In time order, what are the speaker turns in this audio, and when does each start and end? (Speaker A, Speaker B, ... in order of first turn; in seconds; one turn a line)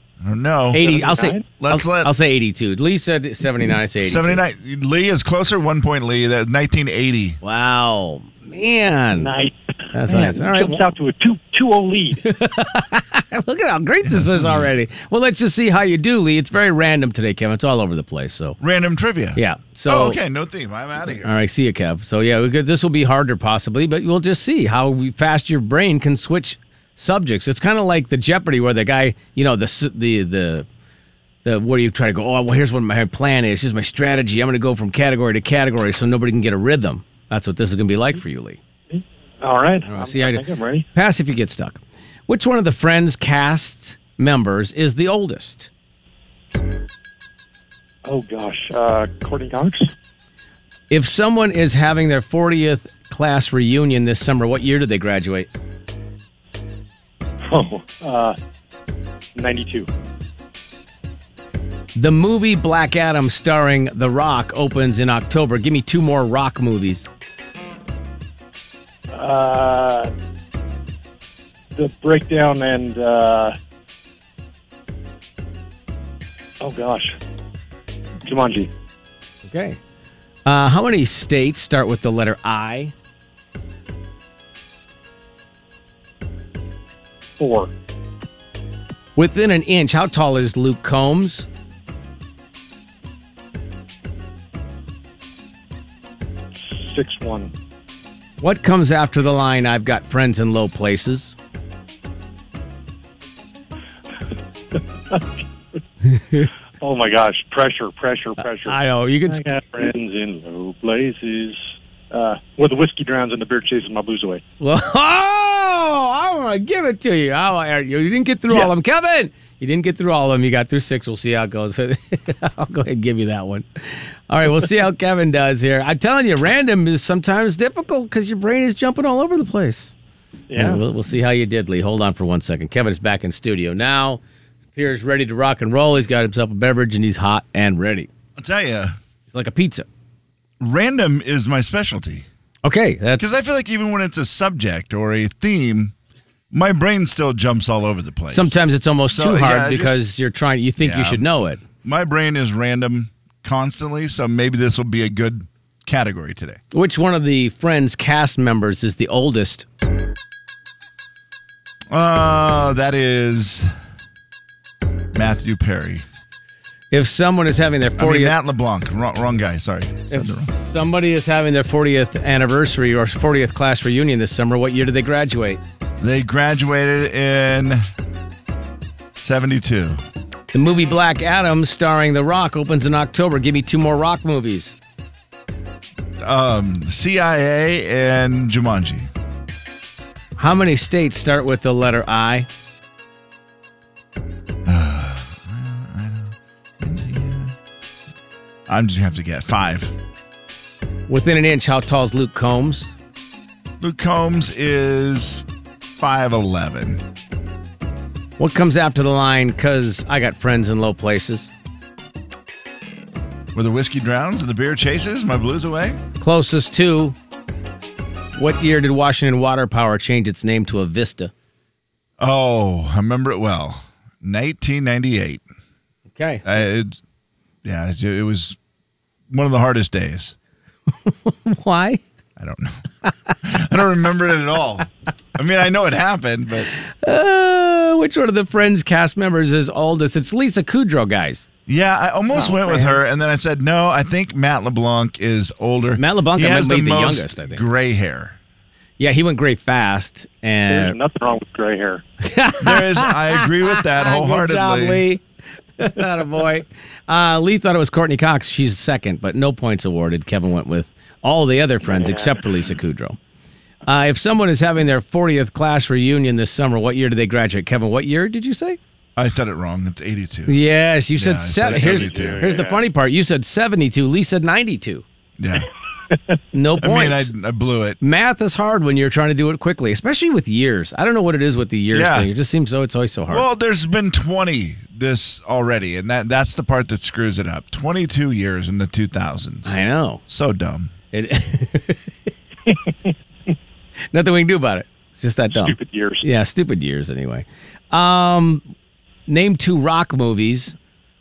Speaker A: 0.2-0.8
Speaker B: 0.7-4.4
Speaker C: 0.8-1.4
Speaker A: 1.6-2.1
Speaker A: 4.0-7.4
Speaker B: 7.4-9.3
Speaker C: 9.2-12.2
Speaker B: 9.9-10.8
Speaker B: 12.2-18.6
Speaker A: 14.0-14.7
Speaker A: 18.6-21.3
Speaker B: 19.4-20.2
Speaker B: 21.2-30.6
Speaker B: 31.4-38.6
Speaker C: 38.9-40.9
Speaker B: 39.9-45.7
Speaker C: 48.0-49.9
Speaker B: 50.9-55.5
Speaker C: 57.5-58.4
Speaker C: 59.4-59.9
Speaker B: 62.0-67.1
Speaker C: 69.1-70.1
Speaker C: 71.7-73.5
Speaker C: 76.6-77.1
Speaker C: 78.2-78.7
Speaker B: 79.4-79.8
Speaker B: 80.4-82.9
Speaker C: 87.4-87.7
Speaker B: 89.2-91.5
Speaker C: 96.6-97.5
Speaker B: 98.4-101.3
Speaker C: 104.7-105.3
Speaker B: 106.1-106.5
Speaker C: 106.8-111.6
Speaker B: 108.6-109.5
Speaker C: 112.1-114.4
Speaker B: 114.6-129.9
Speaker C: 130.5-130.8
Speaker B: 130.6-134.2
Speaker B: 134.8-138.1
Speaker A: 138.4-138.9
Speaker B: 139.3-139.8
Speaker A: 140.6-142.2
Speaker B: 142.6-143.2
Speaker A: 143.2-145.9
Speaker A: 146.5-150.0
Speaker B: 148.3-151.6
Speaker A: 150.8-151.2
Speaker A: 151.8-156.6
Speaker B: 156.7-159.7
Speaker A: 161.9-163.7
Speaker A: 165.1-166.0
Speaker B: 166.9-168.3
Speaker A: 168.0-170.5
Speaker B: 170.1-175.6
Speaker A: 176.0-177.8
Speaker A: 179.2-180.0
Speaker B: 180.5-184.8
Speaker A: 186.2-189.1
Speaker B: 190.4-192.5
Speaker A: 194.7-197.5
Speaker A: 198.7-199.9
Speaker B: 201.1-202.9
Speaker A: 203.8-207.0
Speaker B: 208.4-211.5
Speaker A: 213.5-216.0
Speaker B: 216.2-217.2
Speaker B: 218.4-221.3
Speaker A: 222.2-225.4
Speaker B: 226.2-226.4
Speaker A: 226.4-227.0
Speaker A: 227.6-228.6
Speaker A: 229.3-230.3
Speaker B: 231.0-232.0
Speaker A: 232.4-232.8
Speaker A: 233.4-236.7
Speaker B: 237.0-241.4
Speaker A: 241.7-248.4
Speaker B: 242.3-243.0
Speaker B: 246.0-247.6
Speaker B: 249.0-251.0
Speaker C: 250.7-252.0
Speaker B: 252.2-255.2
Speaker A: 252.6-255.1
Speaker B: 255.8-263.2
Speaker C: 261.9-262.4
Speaker B: 263.9-268.8
Speaker A: 269.1-270.6
Speaker B: 270.5-275.0
Speaker A: 271.1-272.4
Speaker C: 271.6-272.8
Speaker A: 275.4-275.7
Speaker B: 276.5-277.3
Speaker A: 276.8-278.0
Speaker B: 278.0-283.4
Speaker A: 281.9-282.3
Speaker A: 283.3-289.7
Speaker B: 289.6-290.2
Speaker A: 290.3-290.9
Speaker B: 291.1-292.1
Speaker B: 294.1-298.6
Speaker C: 295.5-296.2
Speaker B: 299.3-300.7